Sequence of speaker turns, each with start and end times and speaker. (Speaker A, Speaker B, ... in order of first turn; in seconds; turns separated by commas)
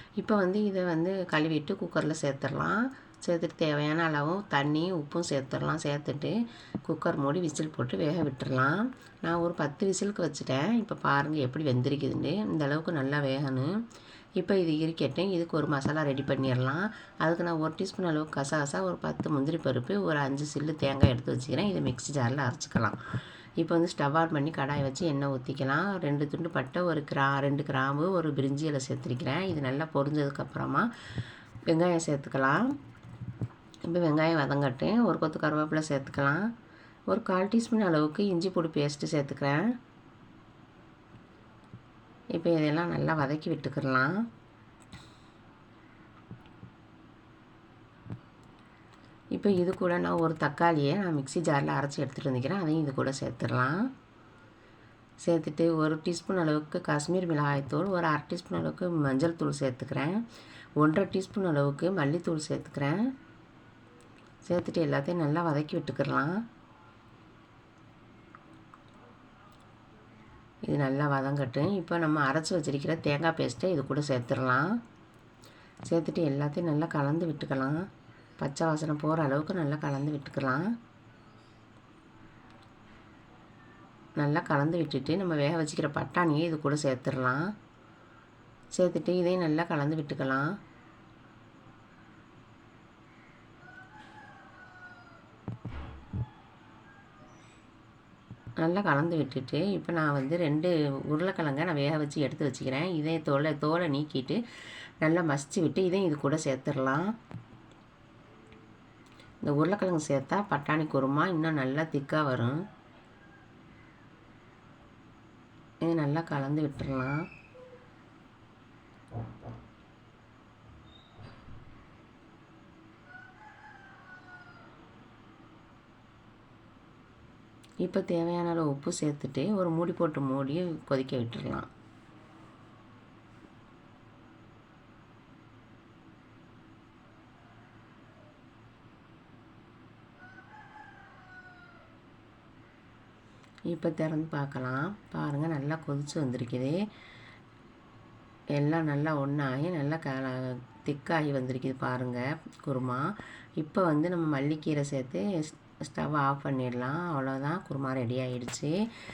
Speaker A: 0.2-13.7, Speaker A: 14.4-23.0, Speaker A: 23.6-30.9, Speaker A: 31.7-32.7, Speaker A: 33.9-36.5, Speaker A: 37.1-39.7, Speaker A: 42.3-44.3, Speaker A: 49.3-53.9, Speaker A: 55.2-60.2, Speaker A: 60.8-63.0, Speaker A: 64.4-66.4, Speaker A: 70.7-74.8, Speaker A: 75.9-77.8, Speaker A: 78.4-80.7, Speaker A: 84.2-87.5, Speaker A: 88.7-90.5, Speaker A: 98.6-104.4, Speaker A: 105.0-107.1, Speaker A: 109.4-112.6, Speaker A: 115.8-117.3, Speaker A: 127.8-131.7, Speaker A: 143.7-146.8, Speaker A: 148.5-158.8